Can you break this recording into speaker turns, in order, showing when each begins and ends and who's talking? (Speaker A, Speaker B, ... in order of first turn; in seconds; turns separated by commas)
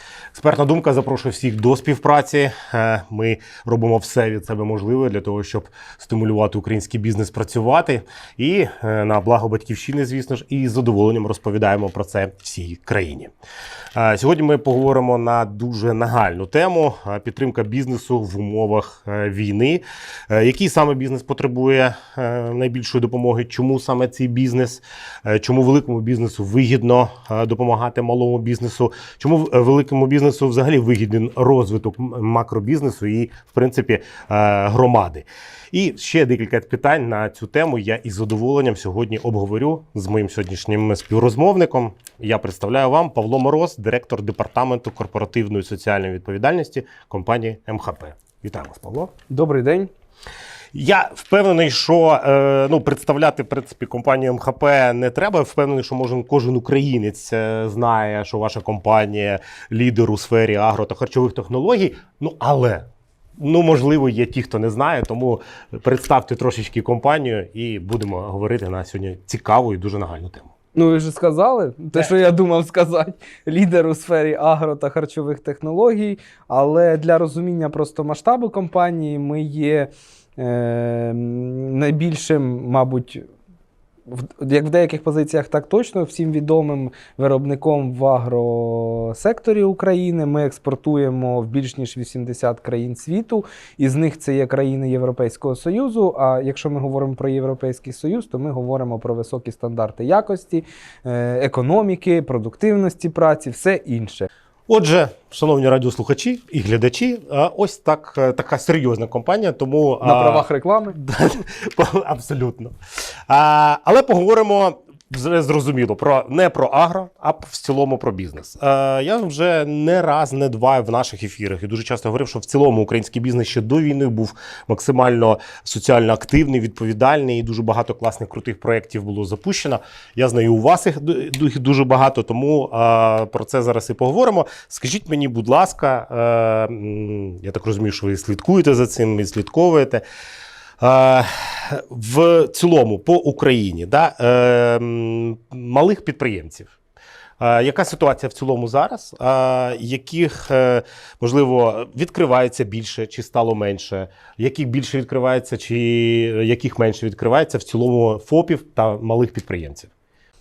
Speaker A: 0.3-13.3, Speaker A: 13.9-49.1, Speaker B: 49.3-49.9, Speaker A: 50.7-62.9, Speaker A: 63.4-70.5, Speaker B: 70.7-83.2, Speaker B: 84.1-104.3, Speaker A: 104.7-112.7, Speaker B: 110.0-111.0, Speaker A: 113.3-140.0, Speaker A: 140.8-146.7, Speaker A: 147.4-159.9